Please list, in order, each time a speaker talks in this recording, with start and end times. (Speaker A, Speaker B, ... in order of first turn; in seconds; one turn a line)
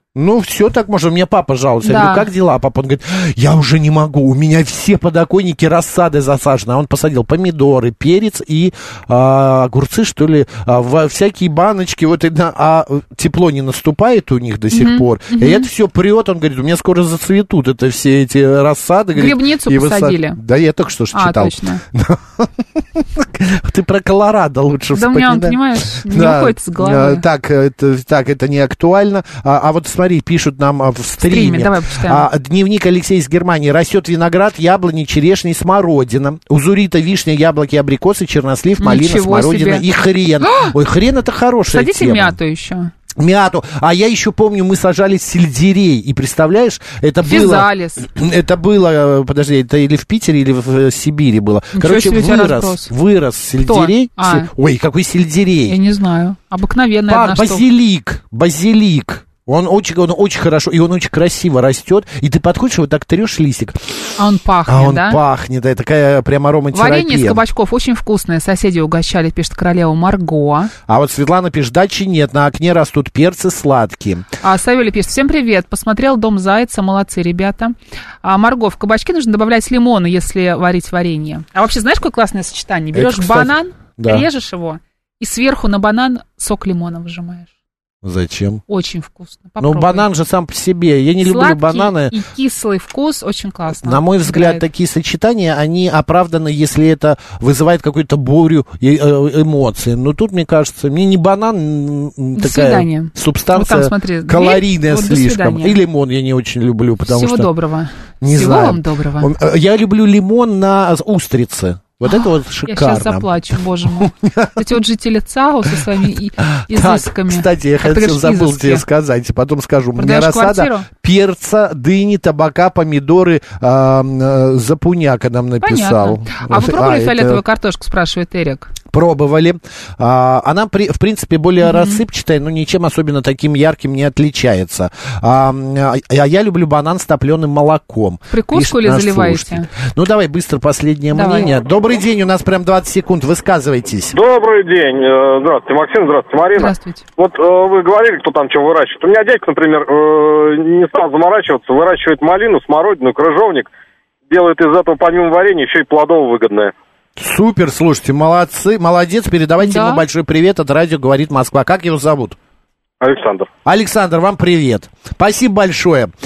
Speaker A: 0.1-42.4
Speaker B: 1.8-2.3
Speaker B: 14.7-15.7
Speaker B: 19.1-20.4
Speaker B: 21.1-21.8
Speaker B: 24.9-27.2
Speaker B: 31.2-32.2
Speaker B: 38.8-39.8
Speaker B: 40.4-40.7
Speaker B: 41.7-42.9
Speaker A: 43.2-55.8
Speaker B: 47.2-48.1
Speaker B: 51.7-52.9
Speaker B: 53.6-54.5
Speaker B: 55.7-57.6
Speaker A: 57.1-63.8
Speaker B: 64.2-65.2
Speaker A: 64.7-67.4
Speaker B: 66.7-70.7
Speaker A: 70.9-74.3
Speaker B: 74.4-87.5
Speaker A: 82.9-84.2
Speaker A: 88.0-88.6
Speaker B: 88.7-90.1
Speaker A: 89.6-92.1
Speaker B: 91.2-94.6
Speaker A: 93.7-107.5
Speaker B: 102.3-105.8
Speaker B: 107.1-109.3
Speaker A: 108.2-113.3
Speaker B: 112.1-118.8
Speaker A: 113.8-114.6
Speaker A: 116.5-127.4
Speaker B: 120.0-120.9
Speaker B: 125.6-128.7
Speaker A: 128.9-144.1
Speaker B: 131.6-132.0
Speaker B: 138.3-139.7
Speaker B: 141.1-141.5
Speaker C: 144.1-153.7
Speaker B: 146.5-147.1
Speaker C: 154.3-156.7
Speaker A: 157.2-162.4
Speaker B: 159.6-160.0
Speaker C: 163.0-163.5
Speaker A: 163.6-166.1